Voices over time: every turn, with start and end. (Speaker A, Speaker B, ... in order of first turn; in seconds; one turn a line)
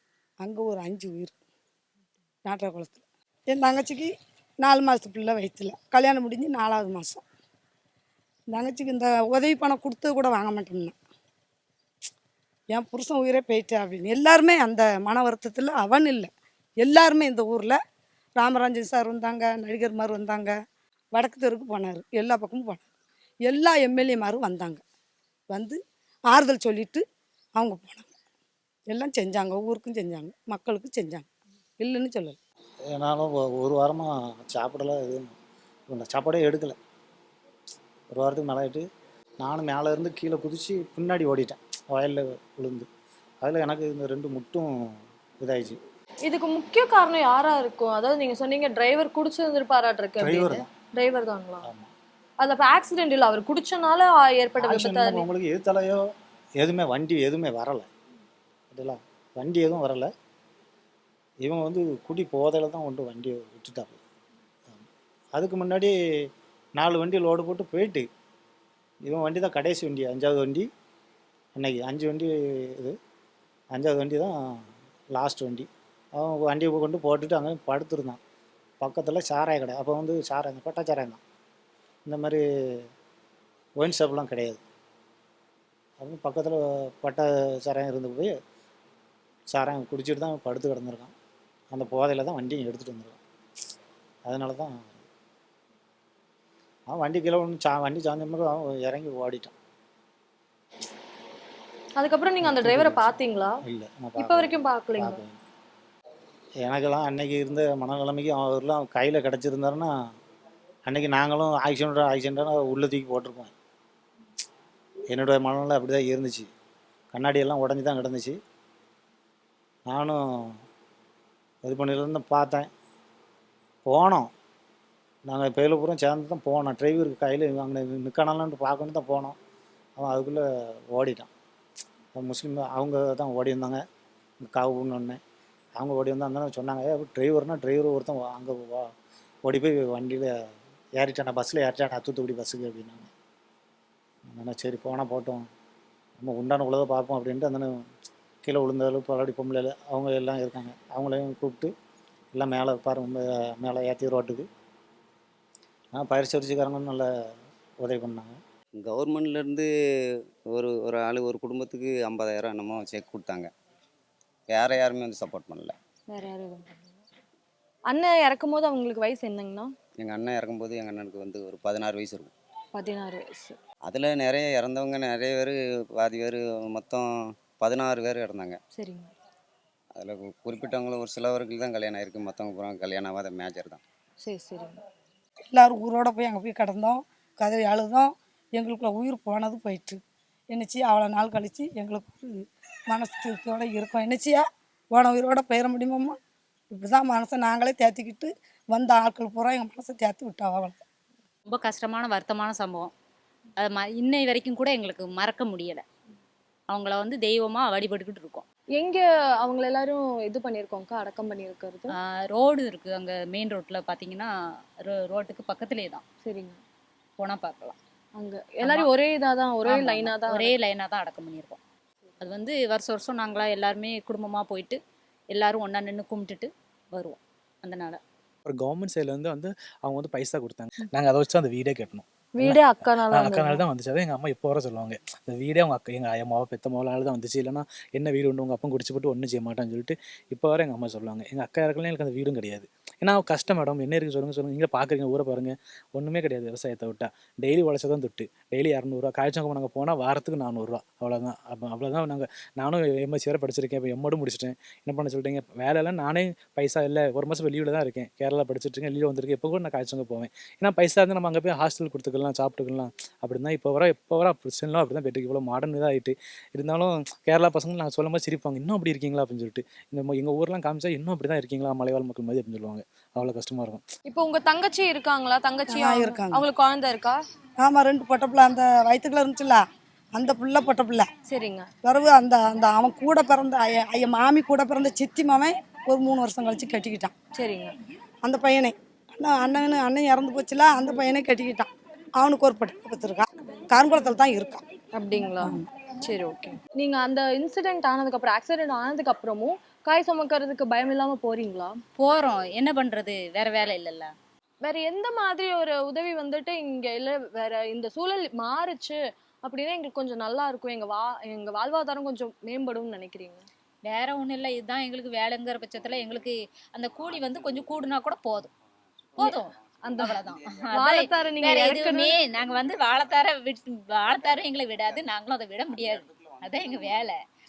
Speaker A: 0.4-1.3
Speaker A: 2.4-7.2
Speaker A: 8.5-10.9
Speaker A: 12.7-17.8
Speaker A: 18.4-20.5
Speaker A: 21.1-22.8
Speaker A: 23.4-24.8
Speaker A: 25.5-27.0
Speaker A: 27.6-28.1
Speaker A: 28.9-31.3
Speaker A: 31.8-32.4
Speaker B: 32.9-35.3
Speaker B: 35.9-36.8
Speaker B: 38.1-38.8
Speaker B: 39.4-42.9
Speaker B: 43.4-45.8
Speaker C: 46.3-51.6
Speaker B: 50.2-50.6
Speaker B: 51.6-51.9
Speaker C: 52.4-55.2
Speaker B: 54.6-56.0
Speaker B: 56.6-57.9
Speaker B: 58.7-60.1
Speaker B: 61.4-64.0
Speaker B: 65.3-65.9
Speaker B: 66.8-68.0
Speaker B: 69.1-70.7
Speaker B: 71.5-73.0
Speaker B: 73.7-78.2
Speaker B: 78.8-81.2
Speaker B: 82.1-82.8
Speaker B: 83.8-84.6
Speaker B: 86.0-88.3
Speaker B: 89.5-91.1
Speaker B: 91.7-93.2
Speaker B: 94.2-94.9
Speaker B: 96.9-99.5
Speaker C: 102.0-103.5
Speaker B: 102.4-105.4
Speaker C: 104.2-105.2
Speaker B: 106.6-109.9
Speaker B: 110.9-113.5
Speaker B: 115.1-116.5
Speaker B: 117.1-118.4
Speaker B: 119.9-120.6
Speaker B: 121.6-122.7
Speaker B: 123.9-124.3
Speaker B: 125.3-129.3
Speaker B: 130.0-131.3
Speaker B: 132.1-133.8
Speaker B: 134.4-135.2
Speaker B: 135.8-138.9
Speaker B: 139.4-140.3
Speaker B: 141.0-143.1
Speaker B: 144.3-145.4
Speaker B: 146.2-147.8
Speaker B: 148.4-151.7
Speaker B: 152.3-154.5
Speaker B: 155.9-157.1
Speaker B: 157.8-158.4
Speaker D: 158.8-159.7
Speaker D: 160.5-163.5
Speaker D: 164.5-165.7
Speaker C: 166.1-166.9
Speaker C: 167.9-169.7
Speaker D: 170.0-172.3
Speaker C: 172.7-173.6
Speaker D: 173.8-178.6
Speaker C: 178.7-179.1
Speaker D: 179.9-183.8
Speaker C: 184.2-184.8
Speaker A: 185.5-196.2
Speaker A: 196.7-200.8
Speaker E: 201.5-202.9
Speaker E: 203.6-205.8
Speaker E: 206.7-208.4
Speaker C: 208.8-211.9
Speaker E: 211.9-214.3
Speaker E: 214.9-216.0
Speaker C: 216.2-216.6
Speaker E: 217.2-217.8
Speaker C: 218.2-220.5
Speaker E: 218.6-218.9
Speaker E: 219.6-221.6
Speaker E: 222.2-224.8
Speaker E: 225.3-228.0
Speaker F: 228.5-273.8
Speaker C: 232.4-233.6
Speaker C: 274.1-277.2
Speaker A: 275.7-276.4
Speaker A: 277.6-279.6
Speaker A: 280.1-281.1
Speaker C: 281.3-281.7
Speaker A: 281.8-287.1
Speaker C: 287.4-287.7
Speaker A: 288.2-294.6
Speaker C: 294.9-301.7
Speaker E: 302.0-304.1
Speaker C: 304.6-313.4
Speaker E: 313.9-318.5
Speaker E: 319.2-327.1
Speaker C: 320.8-322.1